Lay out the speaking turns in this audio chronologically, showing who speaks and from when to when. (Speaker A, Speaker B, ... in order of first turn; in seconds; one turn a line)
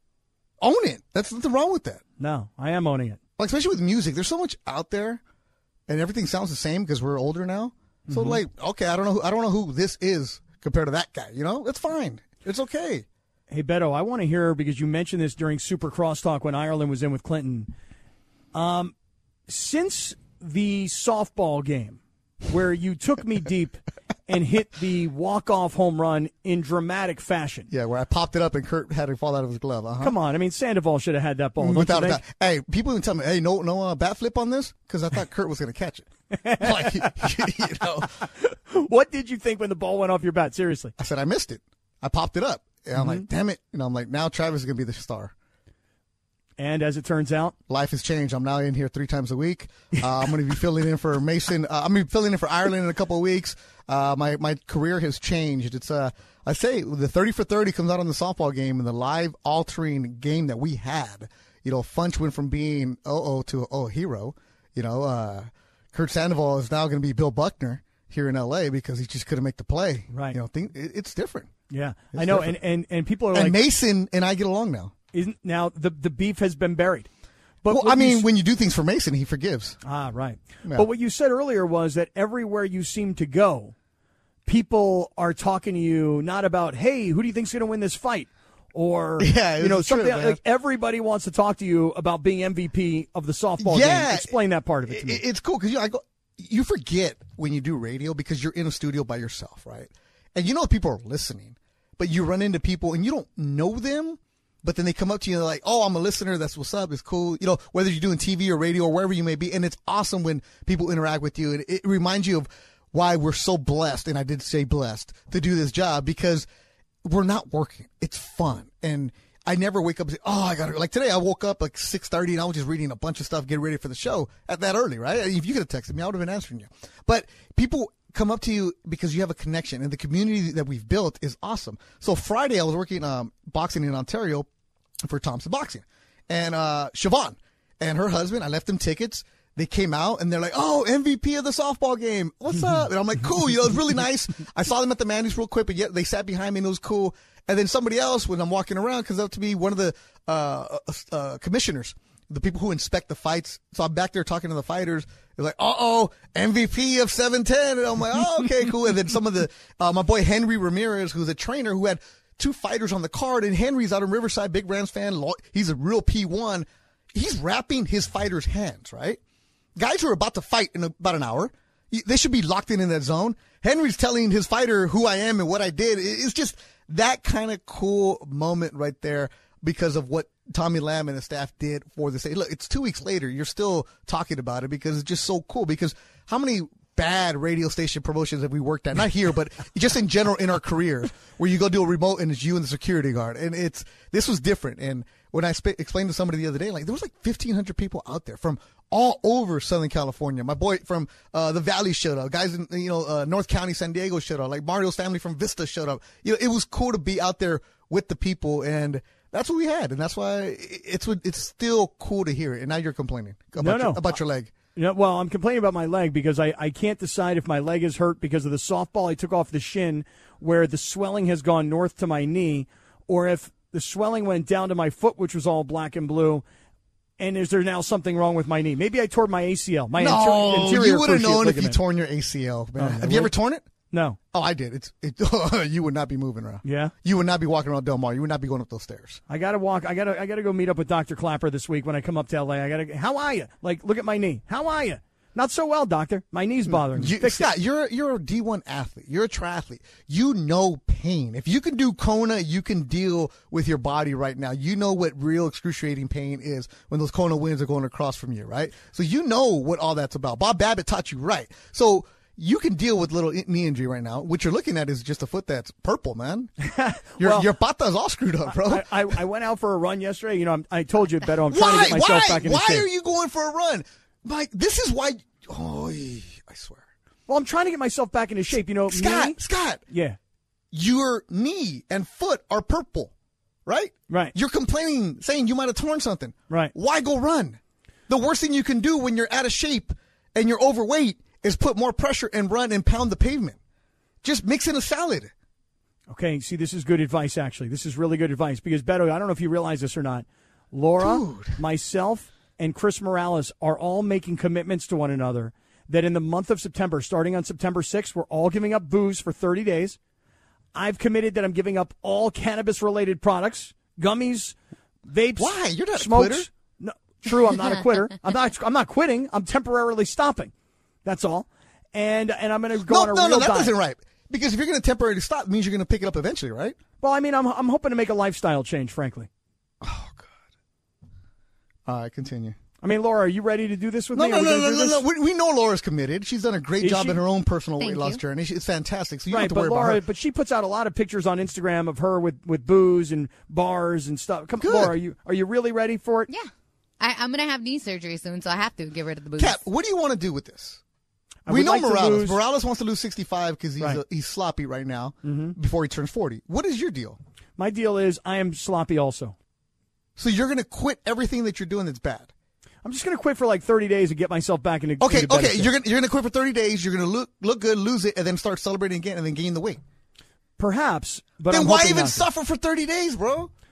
Speaker A: 0.6-2.0
Speaker B: 2.2-3.2
Speaker A: 3.4-5.2
Speaker A: 5.9-13.1
Speaker B: 8.1-8.4
Speaker B: 13.5-17.7
Speaker B: 18.5-18.9
Speaker B: 19.5-27.7
Speaker A: 27.7-30.2
Speaker B: 30.0-32.2
Speaker A: 31.6-38.1
Speaker B: 36.3-37.3
Speaker B: 37.8-40.9
Speaker A: 41.0-45.3
Speaker B: 43.0-43.3
Speaker B: 46.6-47.5
Speaker A: 47.7-71.5
Speaker B: 70.1-70.4
Speaker B: 71.7-73.6
Speaker A: 72.1-72.6
Speaker A: 73.3-74.9
Speaker B: 75.1-77.1
Speaker B: 77.6-78.3
Speaker A: 77.7-79.8
Speaker B: 79.8-83.7
Speaker B: 84.5-95.2
Speaker A: 89.2-90.4
Speaker A: 93.6-116.5
Speaker A: 117.0-134.5
Speaker A: 135.0-169.2
Speaker A: 169.8-214.5
Speaker B: 213.6-214.2
Speaker B: 214.8-226.4
Speaker B: 227.2-231.8
Speaker A: 230.0-233.7
Speaker B: 232.8-233.3
Speaker B: 233.9-234.2
Speaker A: 234.3-239.2
Speaker B: 236.6-236.9
Speaker B: 239.3-247.5
Speaker A: 246.7-266.5
Speaker B: 266.6-267.5
Speaker A: 267.2-269.1
Speaker B: 268.5-272.9
Speaker A: 271.5-276.8
Speaker B: 277.3-280.2
Speaker A: 278.9-279.8
Speaker A: 280.7-283.1
Speaker A: 283.7-293.6
Speaker B: 284.1-284.4
Speaker A: 294.2-295.3
Speaker B: 296.1-310.0
Speaker A: 301.0-301.6
Speaker B: 310.7-314.6
Speaker B: 315.1-320.5
Speaker A: 315.4-316.5
Speaker B: 321.1-323.8
Speaker A: 322.8-326.8
Speaker B: 327.0-329.3
Speaker A: 329.8-330.3
Speaker A: 331.9-332.6
Speaker B: 332.8-335.1
Speaker A: 334.1-340.0
Speaker B: 336.8-337.2
Speaker C: 337.8-338.2
Speaker B: 339.3-346.3
Speaker A: 344.6-345.0
Speaker C: 346.3-349.6
Speaker A: 349.4-350.8
Speaker B: 351.5-352.4
Speaker A: 351.5-357.2
Speaker B: 355.2-355.6
Speaker B: 357.6-359.4
Speaker A: 360.2-362.3
Speaker B: 362.8-365.7
Speaker A: 365.0-369.8
Speaker B: 370.6-372.2
Speaker A: 371.5-373.5